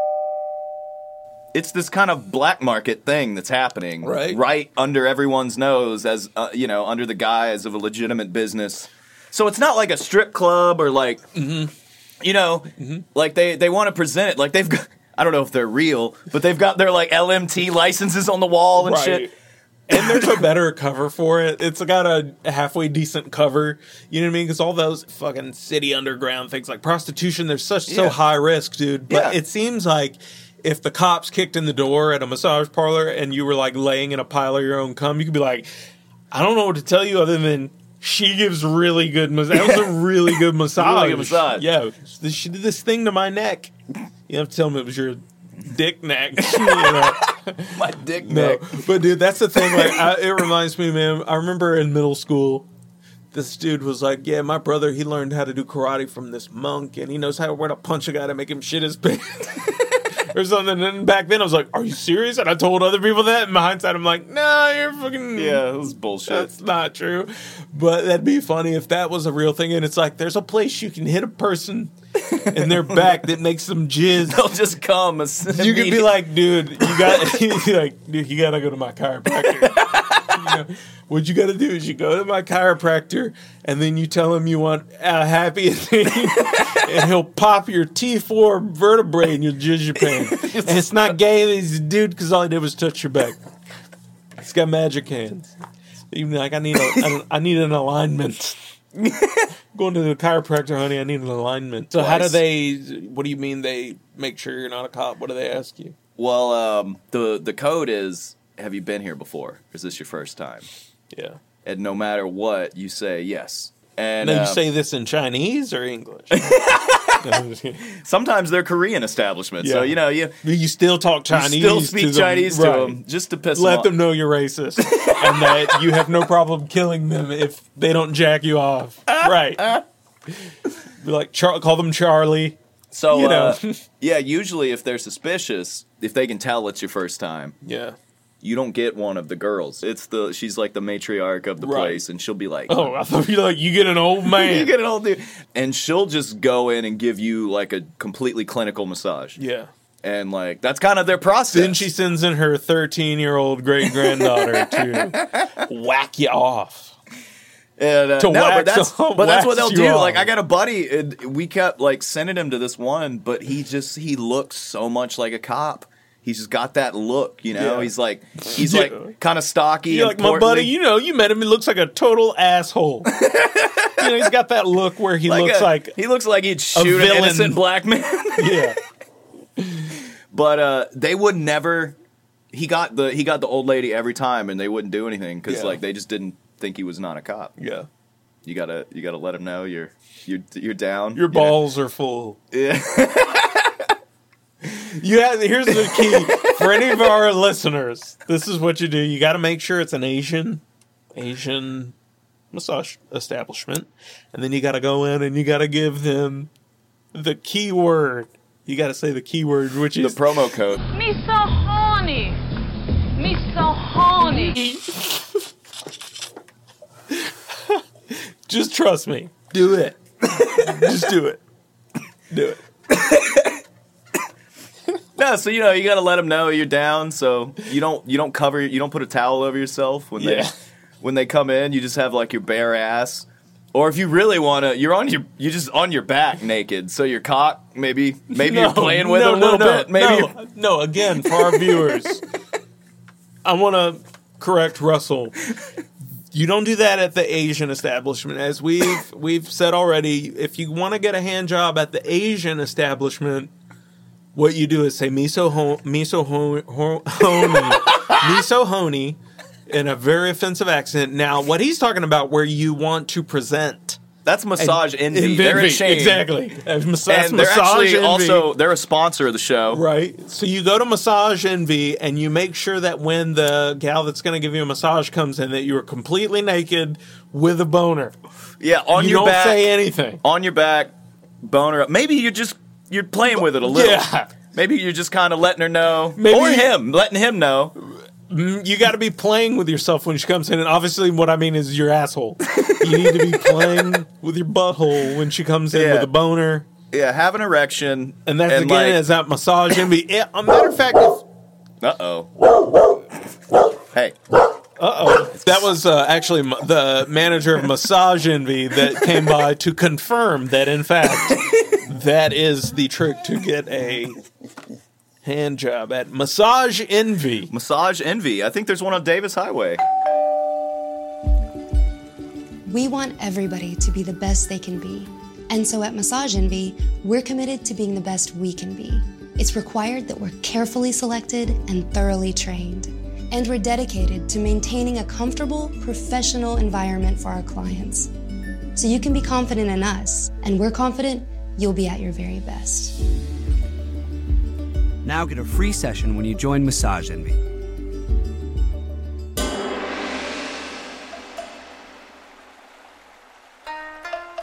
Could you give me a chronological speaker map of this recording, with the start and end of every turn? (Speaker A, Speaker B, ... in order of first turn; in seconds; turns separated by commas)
Speaker A: 1.5-11.3, Speaker B: 4.0-4.4, Speaker B: 11.3-11.7, Speaker A: 12.2-19.3, Speaker B: 12.8-13.1, Speaker B: 18.8-19.3, Speaker B: 19.9-35.7, Speaker A: 19.9-20.4, Speaker A: 27.9-28.2, Speaker A: 29.1-29.4, Speaker B: 36.3-43.7, Speaker A: 39.5-40.1, Speaker A: 40.8-41.7, Speaker B: 44.3-52.7, Speaker A: 46.4-48.8, Speaker A: 49.6-50.0, Speaker B: 53.3-65.6, Speaker A: 65.3-66.5, Speaker B: 66.3-71.9, Speaker A: 72.3-73.2, Speaker B: 72.5-74.4, Speaker A: 74.2-76.2, Speaker B: 75.5-93.4, Speaker A: 76.8-77.4, Speaker A: 79.6-80.4, Speaker A: 90.0-91.1, Speaker B: 94.4-95.5, Speaker B: 96.1-98.6, Speaker A: 99.0-99.5, Speaker B: 99.7-106.0, Speaker A: 101.9-102.4, Speaker A: 106.2-110.7, Speaker B: 111.1-111.4, Speaker A: 111.7-114.6, Speaker B: 114.2-116.5, Speaker A: 116.3-117.3, Speaker B: 117.2-117.9, Speaker A: 117.8-120.4, Speaker B: 119.6-123.0, Speaker A: 121.3-123.9, Speaker B: 123.5-129.8, Speaker A: 124.8-125.6, Speaker A: 129.1-129.8, Speaker B: 131.0-132.6, Speaker A: 132.9-137.6, Speaker B: 133.1-133.8, Speaker B: 137.6-138.0, Speaker A: 138.4-142.9, Speaker B: 141.6-142.0, Speaker B: 142.7-144.7, Speaker A: 144.2-149.4, Speaker B: 149.4-149.7, Speaker A: 150.0-151.9, Speaker B: 151.5-156.9, Speaker A: 153.8-155.5, Speaker A: 157.8-170.7, Speaker B: 158.2-160.3, Speaker B: 167.5-169.2, Speaker B: 169.9-173.1, Speaker A: 173.1-174.3, Speaker B: 174.0-176.0, Speaker A: 175.2-178.7, Speaker B: 176.8-177.6, Speaker B: 178.4-178.8, Speaker B: 179.6-179.9, Speaker A: 180.3-182.0, Speaker A: 182.5-187.5, Speaker B: 185.5-185.8, Speaker B: 187.6-187.9, Speaker A: 188.4-191.6, Speaker B: 191.2-192.4, Speaker A: 192.5-193.9, Speaker B: 194.8-200.6, Speaker A: 195.7-196.9, Speaker B: 201.2-201.9, Speaker B: 202.5-206.5, Speaker B: 207.1-210.2, Speaker A: 210.0-210.8, Speaker C: 210.9-212.4, Speaker C: 213.2-214.7, Speaker B: 214.2-215.3, Speaker B: 217.1-221.4, Speaker B: 222.3-222.6, Speaker A: 222.9-223.6, Speaker A: 225.2-240.4, Speaker B: 230.2-230.5, Speaker B: 238.3-242.2, Speaker A: 241.2-242.1, Speaker B: 243.4-245.4, Speaker B: 246.3-253.5, Speaker B: 254.3-264.0, Speaker A: 264.2-266.3, Speaker B: 264.6-268.5, Speaker A: 267.1-269.8, Speaker B: 269.7-278.2, Speaker A: 278.6-287.8, Speaker B: 278.9-280.2, Speaker B: 283.6-284.3, Speaker B: 286.2-286.7, Speaker B: 288.3-296.7, Speaker A: 292.6-293.3, Speaker A: 295.7-296.1, Speaker A: 296.9-299.0, Speaker B: 298.3-301.2, Speaker A: 301.8-302.3, Speaker A: 303.9-304.2, Speaker B: 304.8-314.2, Speaker B: 315.2-317.5, Speaker A: 317.5-319.8, Speaker D: 322.7-338.1, Speaker D: 338.8-343.0, Speaker E: 345.0-347.4